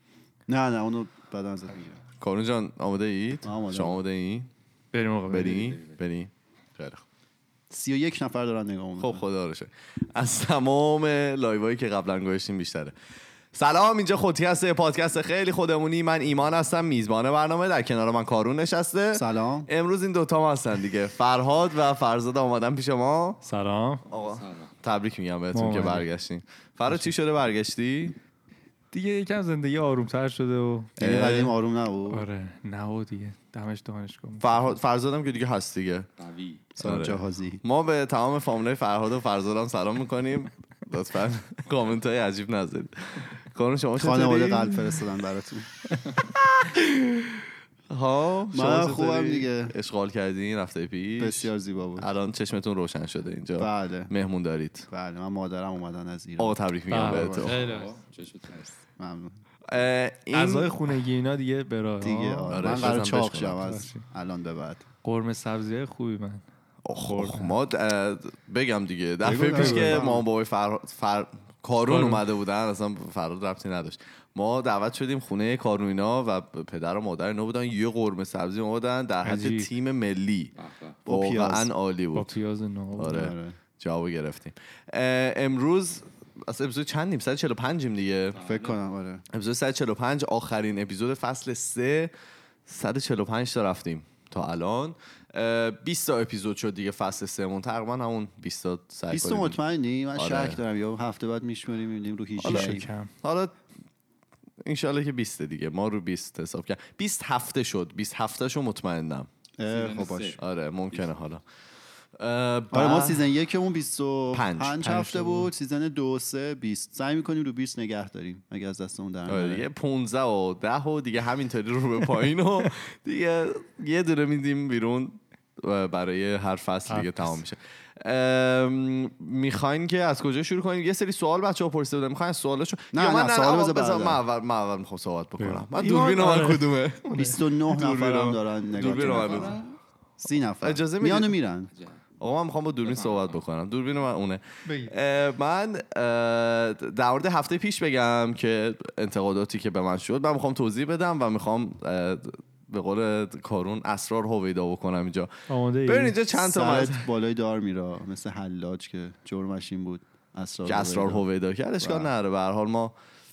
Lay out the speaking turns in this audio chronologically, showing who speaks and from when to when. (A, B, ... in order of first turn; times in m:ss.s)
0:00.5-0:02.0 A
0:02.2-0:04.5 B
0:03.4-0:04.0 A
0:04.9-0:05.7 C
0:05.3-0:07.0 B
0:05.3-0:06.0 D
0:07.7-0:09.2 A
0:09.0-0:12.9 B
0:13.5-0:23.4 B
0:19.1-0:19.7 A
0:23.4-0:24.0 C
0:24.1-0:28.2 B
0:24.1-0:24.7 D
0:25.5-0:26.0 C
0:28.9-0:31.0 C
0:31.0-0:32.2 A
0:31.0-0:31.5 B
0:32.1-0:34.8 C
0:34.4-0:36.1 B
0:36.2-0:36.7 D
0:36.8-0:37.6 A
0:36.8-0:45.0 B
0:44.0-0:45.7 A
0:46.2-0:54.9 B
0:48.5-0:49.7 A
0:51.2-0:52.1 A
0:53.6-0:54.1 A
0:54.9-0:57.5 A
0:56.4-0:57.6 B
0:56.9-0:57.9 C
0:57.4-0:58.8 D
0:58.8-0:59.4 A
0:59.7-1:00.7 B
1:00.3-1:03.0 C
1:02.0-1:04.8 A
1:02.5-1:03.6 B
1:03.6-1:04.0 C
1:05.0-1:06.4 C
1:06.8-1:20.5 B
1:07.0-1:07.6 C
1:09.2-1:10.2 A
1:09.5-1:10.0 C
1:11.8-1:12.2 C
1:19.2-1:19.7 C
1:20.6-1:21.0 D
1:21.0-1:21.7 A
1:21.1-1:22.3 B
1:22.1-1:23.2 C
1:23.0-1:28.4 B
1:23.0-1:23.6 A
1:28.3-1:28.8 D
1:28.4-1:29.2 A
1:29.3-1:32.1 B
1:32.6-1:39.6 B
1:39.1-1:42.9 A
1:40.1-1:40.6 B
1:42.4-1:43.6 B
1:42.4-1:43.1 C
1:44.6-1:49.3 B
1:49.6-1:50.4 A
1:49.6-1:50.4 D
1:50.4-1:51.4 B
1:52.2-1:53.2 B
1:52.7-1:59.6 A
1:54.3-1:55.4 B
1:59.3-2:19.6 B
2:06.9-2:07.4 C
2:12.9-2:14.2 A
2:15.4-2:17.5 C
2:17.1-2:19.6 A
2:18.9-2:19.8 D
2:20.2-2:21.7 A
2:20.6-2:21.4 B
2:21.7-2:22.0 D
2:22.2-2:35.3 B
2:22.8-2:23.4 D
2:24.6-2:24.9 C
2:35.5-2:36.2 C
2:35.8-2:37.0 B
2:36.3-2:41.2 A
2:40.6-2:42.9 B
2:41.8-2:42.1 A